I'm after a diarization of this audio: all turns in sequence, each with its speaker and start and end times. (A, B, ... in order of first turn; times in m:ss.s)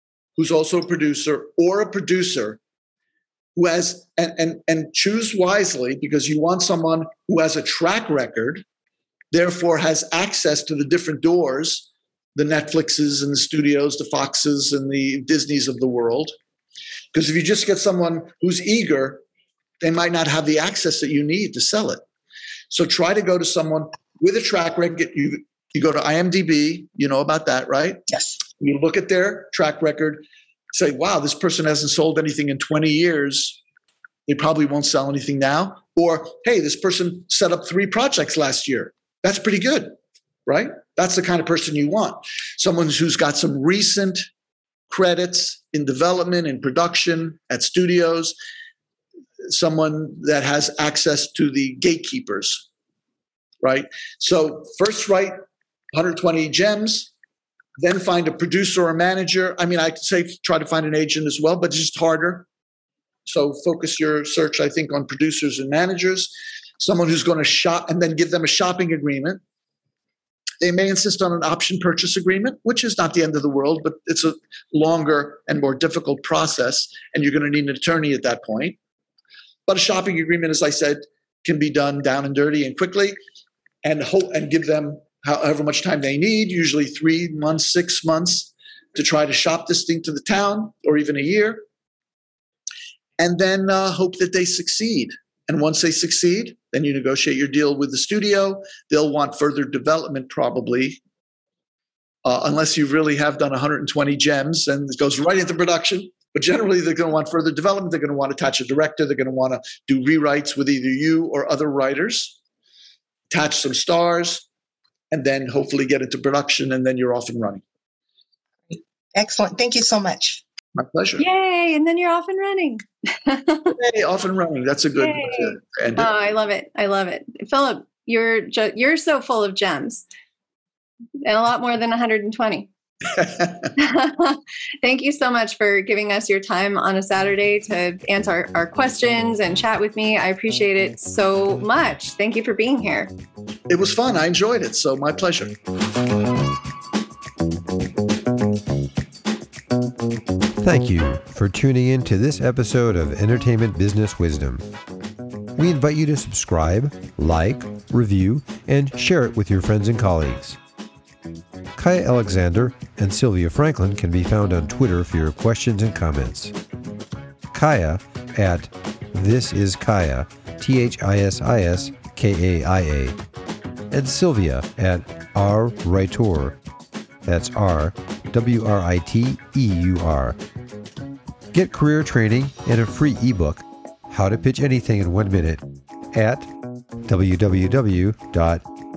0:00.4-0:02.6 A
0:03.6-0:08.6 A
0:09.3-0:16.4 A
0:17.1-0:19.2 A
0:19.8-0:22.0 A
0:22.7-0:28.0 A
0:28.1-0:28.4 B
0:28.6-0:33.6 A
0:34.3-0:44.3 A
0:44.9-0:48.4 A
0:49.4-0:52.7 A
0:53.6-0:55.4 A
0:55.9-0:57.1 A
0:57.8-1:02.5 A
1:03.3-1:09.4 A
1:10.6-1:18.8 A
1:19.7-1:23.2 A
1:23.8-1:31.7 A
1:33.2-1:41.0 A
1:42.2-1:52.4 A
1:53.3-1:54.5 A
1:55.1-1:57.6 A
1:58.7-2:00.4 B
2:00.8-2:01.2 A
2:01.2-2:03.7 C
2:03.7-2:06.1 A
2:05.0-2:10.0 C
2:11.2-2:12.7 C
2:13.1-2:13.7 A
2:13.8-2:23.1 C
2:23.7-2:25.6 A
2:30.6-2:34.7 D
2:35.6-2:40.6 D
2:41.8-2:46.6 D
2:47.5-2:53.2 D
2:53.9-2:56.6 D
2:57.2-3:00.4 D
3:01.5-3:06.5 D
3:07.1-3:08.6 D